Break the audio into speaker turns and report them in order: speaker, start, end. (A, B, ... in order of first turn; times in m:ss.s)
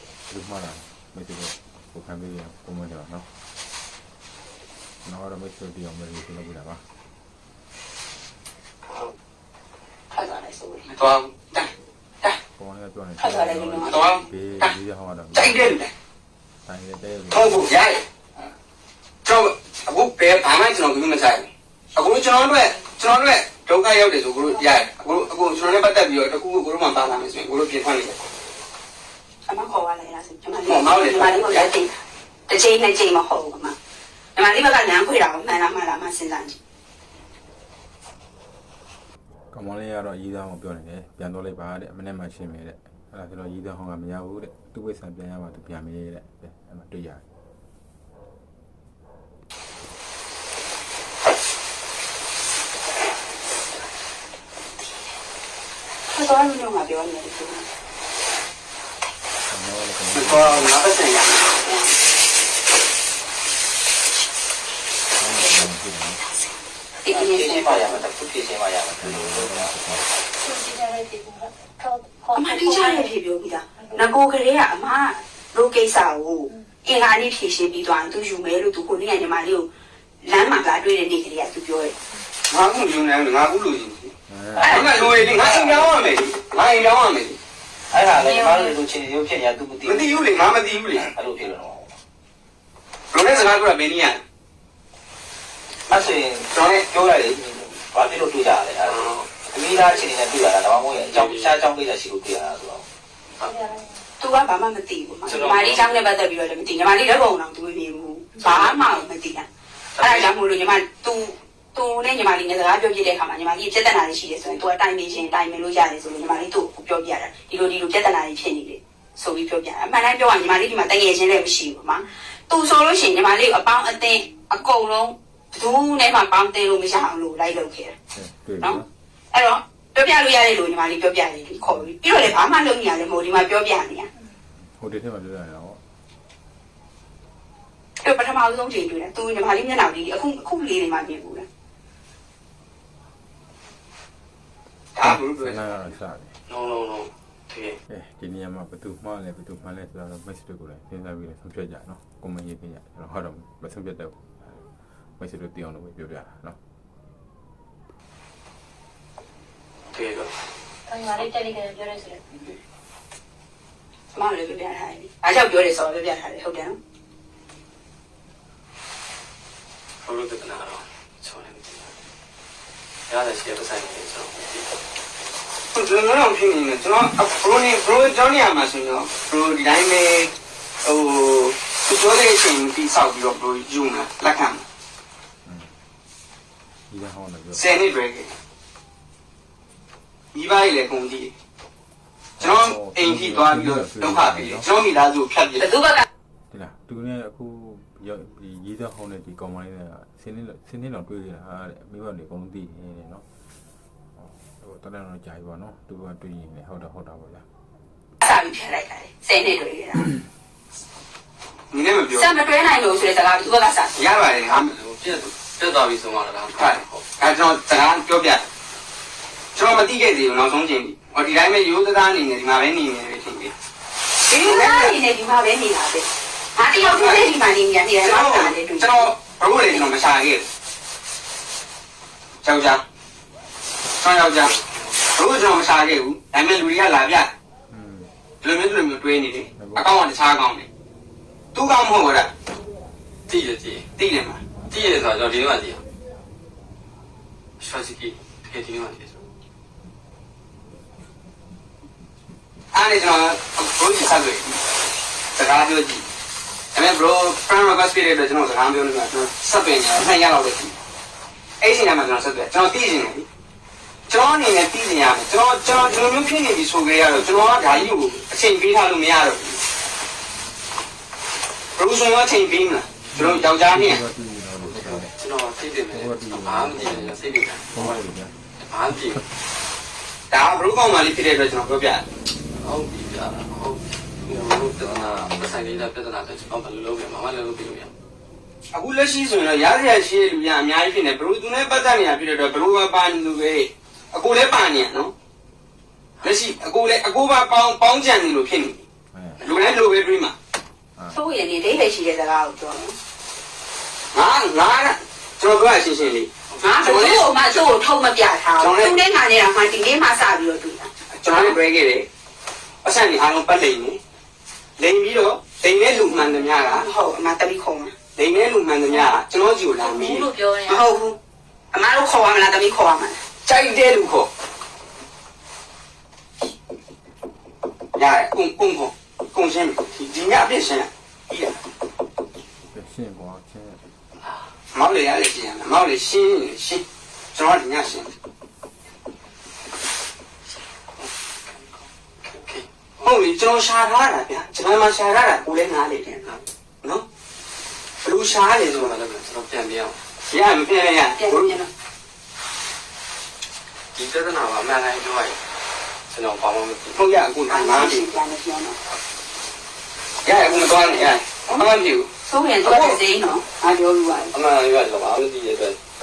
0:00.3-0:03.3 A
0:05.0-0:06.9 A
0:08.9-0:09.1 B
0:10.1-0:10.9 C
0:10.9-0:11.7 D
0:12.5-0:15.8 A
0:13.2-0:14.3 C
0:13.9-0:14.7 D
0:15.3-0:15.9 D
0:16.6-0:17.7 A
0:17.3-0:18.0 D
0:19.2-0:28.2 D
0:29.4-0:31.9 C
0:30.6-0:31.7 D
0:32.5-0:33.8 C
0:34.4-0:36.6 C
0:39.5-0:47.3 A
0:56.1-0:57.7 C
0:59.5-1:00.7 A
1:00.1-1:02.0 D
1:05.1-1:06.2 A
1:07.0-1:08.0 C
1:07.1-1:09.8 E
1:08.9-1:10.1 A
1:10.4-1:13.1 F
1:12.3-1:19.7 C
1:20.2-1:21.9 C
1:22.5-1:27.4 D
1:24.3-1:25.4 A
1:24.6-1:26.0 E
1:27.9-1:32.0 E
1:28.2-1:28.7 F
1:29.8-1:31.1 D
1:33.1-1:34.2 D
1:35.9-1:42.8 E
1:36.5-1:36.9 D
1:38.8-1:39.3 B
1:41.0-1:41.6 B
1:43.5-1:44.0 F
1:44.2-1:49.5 C
1:45.2-1:46.0 B
1:48.4-1:48.8 B
1:50.0-1:50.3 B
1:50.0-2:08.0 C
2:08.1-2:08.9 A
2:09.3-2:14.1 C
2:11.7-2:11.9 A
2:14.6-2:15.8 A
2:18.0-2:21.4 C
2:24.9-2:25.7 D
2:25.0-2:26.3 A
2:26.5-2:27.8 B
2:27.9-2:36.6 A
2:39.9-2:40.3 B
2:40.9-2:42.2 F
2:44.1-2:46.8 C
2:50.0-2:51.9 B
2:53.1-2:54.7 B
2:55.7-3:00.3 D
3:00.8-3:04.6 D
3:05.4-3:05.8 A
3:06.9-3:07.6 A
3:07.5-3:08.3 D
3:10.3-3:11.3 D
3:12.4-3:14.7 A
3:12.4-3:15.7 D
3:15.6-3:16.0 C
3:16.5-3:23.2 A
3:24.2-3:27.5 A
3:28.2-3:30.1 C
3:31.7-3:32.3 D
3:32.1-3:33.9 C
3:33.9-3:34.7 D
3:34.5-3:37.0 B
3:36.5-3:38.4 D
3:39.5-3:43.5 D
3:44.2-3:49.1 C
3:44.4-3:45.0 D
3:46.8-3:47.3 D
3:48.0-3:50.5 D
3:52.4-3:52.8 D
3:54.0-3:54.5 D
3:54.4-3:55.1 B
3:55.1-3:57.3 D
3:57.7-3:58.1 A
3:58.4-4:00.7 D
3:59.6-3:59.9 A
4:01.5-4:02.3 D
4:03.3-4:03.9 B
4:04.0-4:04.4 D
4:04.7-4:05.8 B
4:07.6-4:09.2 B
4:12.7-4:14.6 D
4:15.3-4:16.0 D
4:16.7-4:20.7 D
4:21.6-4:23.3 D
4:24.1-4:29.6 D
4:25.7-4:26.3 A
4:27.2-4:27.9 A
4:31.8-4:34.0 D
4:33.1-4:35.1 A
4:34.6-4:38.0 B
4:35.9-4:38.4 A
4:38.7-4:39.2 B
4:40.3-4:42.0 D
4:42.5-4:47.9 B
4:44.8-4:45.8 A
4:48.7-4:55.1 D
4:56.2-4:58.8 D
4:59.1-4:59.5 A
4:59.4-5:00.3 D
5:01.1-5:03.0 C
5:04.1-5:07.6 D
5:06.6-5:10.9 C
5:08.6-5:09.0 D
5:11.1-5:12.1 D
5:12.8-5:14.0 D
5:14.8-5:16.9 D
5:16.1-5:17.9 C
5:18.2-5:20.3 D
5:19.7-5:20.8 F
5:20.6-5:21.2 C
5:21.7-5:23.2 C
5:23.4-5:24.3 D
5:27.9-5:31.6 D
5:32.7-5:33.9 A
5:34.7-5:38.1 D
5:42.2-5:42.6 B
5:43.0-5:46.3 D
5:48.0-5:49.0 D
5:48.3-5:50.0 B
5:50.2-5:51.6 D
5:51.2-5:51.7 C
5:53.9-5:55.4 B
5:56.1-5:57.0 B
5:56.9-5:58.0 D
5:57.5-5:58.8 C
6:00.2-6:02.1 D
6:00.9-6:01.6 C
6:02.2-6:04.3 C
6:02.6-6:03.0 D
6:04.3-6:05.8 B